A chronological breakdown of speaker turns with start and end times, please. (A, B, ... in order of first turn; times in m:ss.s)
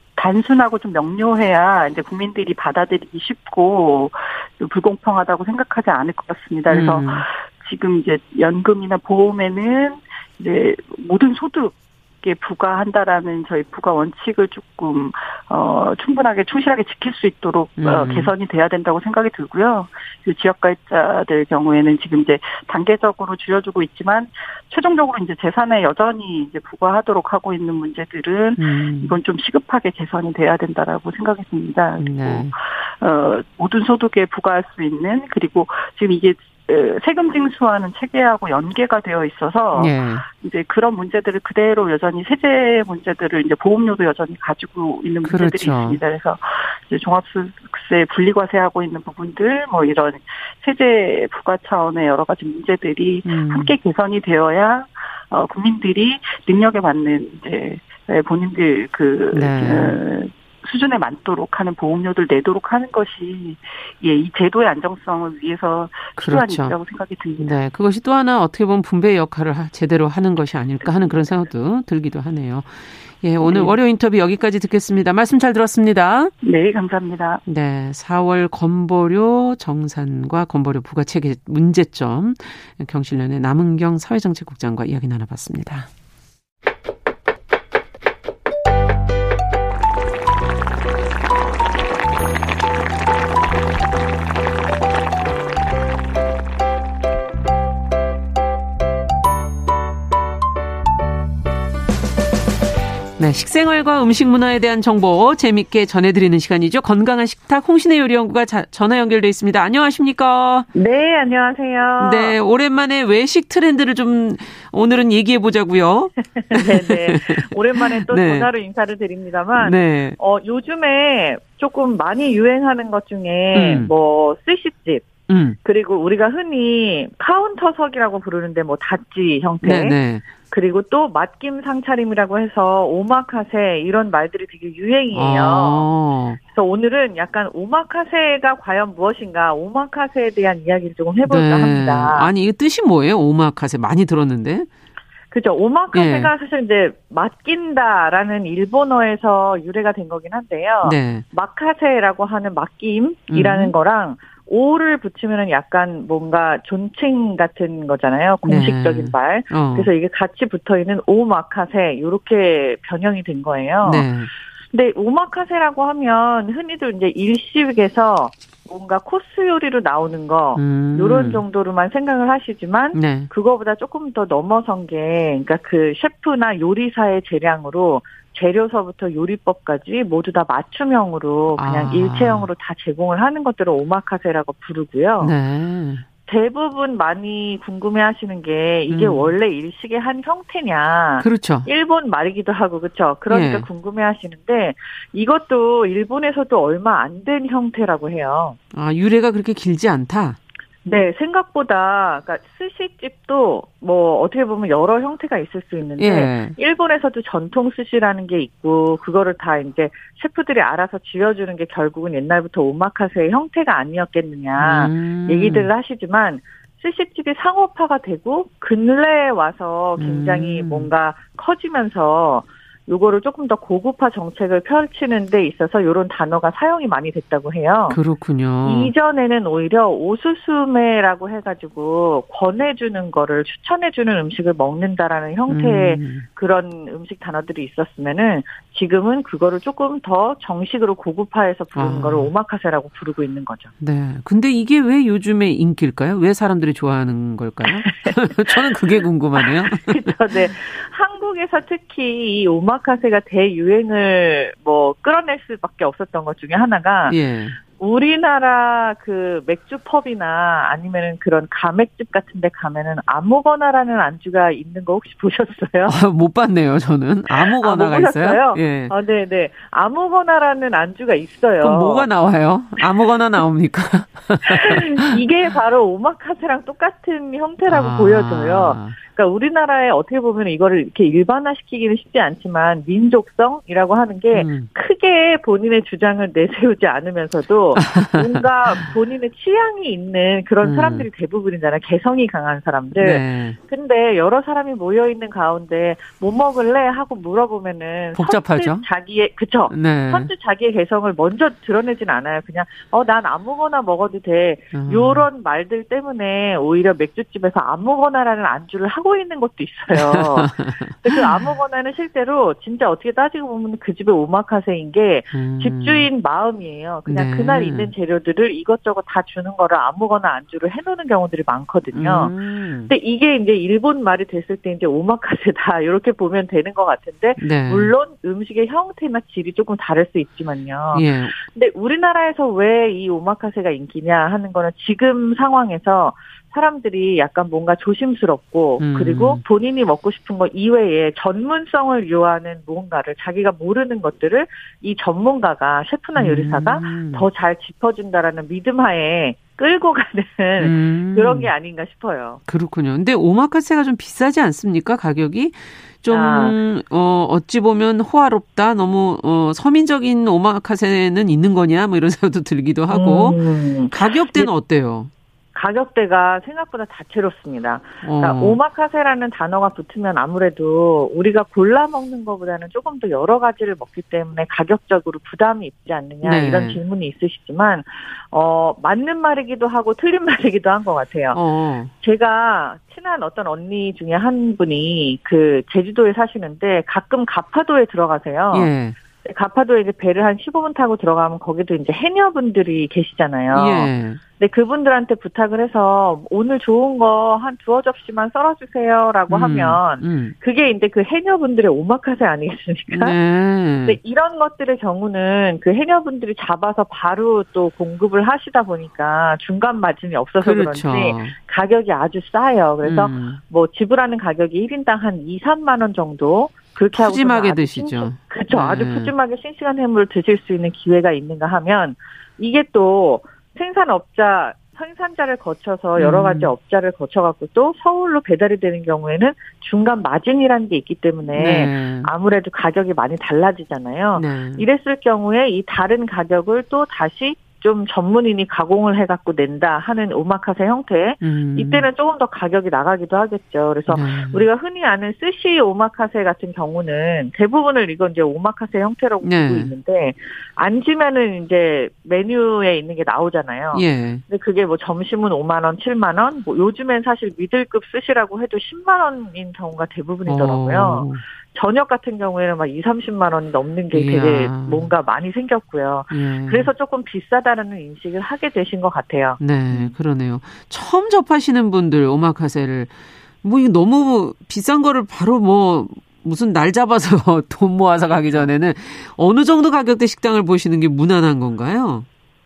0:00.2-1:07.6 A
0:06.7-0:07.2 B
0:17.8-0:18.3 B
0:28.6-0:29.2 B
0:32.0-0:32.5 B
0:39.7-0:40.2 B
0:45.2-0:46.0 B
0:53.2-0:53.7 B
0:59.3-1:00.0 B
1:06.2-1:06.7 B
1:07.4-1:16.3 B
1:10.8-1:11.3 A
1:13.4-1:13.8 A
1:16.4-1:17.4 A
1:17.4-1:25.9 B
1:43.2-1:50.7 B
1:50.7-1:52.3 C
1:52.0-1:58.5 B
1:56.4-2:05.1 C
1:59.6-2:00.2 B
2:03.5-2:03.9 B
2:05.3-2:05.6 B
2:05.6-2:10.0 C
2:09.6-2:10.3 B
2:10.5-2:15.8 C
2:15.1-2:16.4 B
2:16.5-2:22.3 C
2:21.2-2:24.7 B
2:25.3-2:44.1 C
2:25.9-2:26.3 B
2:30.8-2:31.2 B
2:33.3-2:33.7 B
2:38.4-2:39.9 B
2:43.8-2:44.3 B
2:44.7-3:05.3 C
2:50.6-2:51.4 B
2:52.9-2:53.3 B
3:01.5-3:02.5 B
3:05.2-3:06.0 B
3:06.3-3:18.6 C
3:08.9-3:09.3 B
3:11.2-3:11.7 B
3:13.3-3:13.7 B
3:18.7-3:20.4 B
3:20.8-3:48.0 C
3:26.0-3:26.6 B
3:34.6-3:35.7 B
3:40.0-3:40.9 B
3:47.9-3:48.9 B
3:48.6-4:03.7 C
3:55.5-3:56.2 B
4:01.7-4:02.3 B
4:03.8-4:10.2 B
4:09.4-4:17.2 C
4:17.1-4:17.6 B
4:17.8-4:26.0 C
4:25.8-4:28.9 B
4:27.5-4:32.1 C
4:31.6-4:35.2 B
4:34.4-5:10.5 C
4:37.6-4:39.0 B
4:44.3-4:44.7 B
4:47.7-4:48.9 B
4:50.6-4:51.1 B
4:52.9-4:53.6 B
4:58.1-4:58.9 B
4:59.7-5:00.3 B
5:04.7-5:05.3 B
5:09.9-5:11.5 B
5:11.0-5:22.3 C
5:15.3-5:16.1 B
5:17.0-5:17.9 B
5:21.9-5:22.9 B
5:22.9-5:52.4 C
5:27.4-5:27.9 B
5:30.9-5:31.3 B
5:38.8-5:39.4 B
5:46.1-5:47.3 B
5:50.6-5:51.5 B
5:52.5-6:05.1 B
5:56.1-5:56.6 C
6:02.9-6:04.5 C
6:05.5-6:21.4 C
6:08.0-6:08.6 B
6:16.2-6:16.8 B
6:21.3-6:21.9 B
6:22.0-6:28.7 C
6:28.5-6:29.0 B
6:29.2-6:43.1 C
6:33.5-6:34.2 B
6:39.3-6:40.3 B
6:42.9-6:44.0 B
6:43.8-7:49.9 C
6:50.4-6:51.4 B
6:52.8-6:53.4 B
6:56.9-6:59.1 B
7:06.0-7:06.5 B
7:11.3-7:12.1 B
7:14.1-7:14.6 B
7:21.2-7:21.9 B
7:23.9-7:24.4 B
7:29.2-7:29.7 B
7:33.7-7:34.2 B
7:40.2-7:41.2 B
7:43.9-7:44.9 B
7:46.1-7:46.7 B
7:49.4-8:02.0 B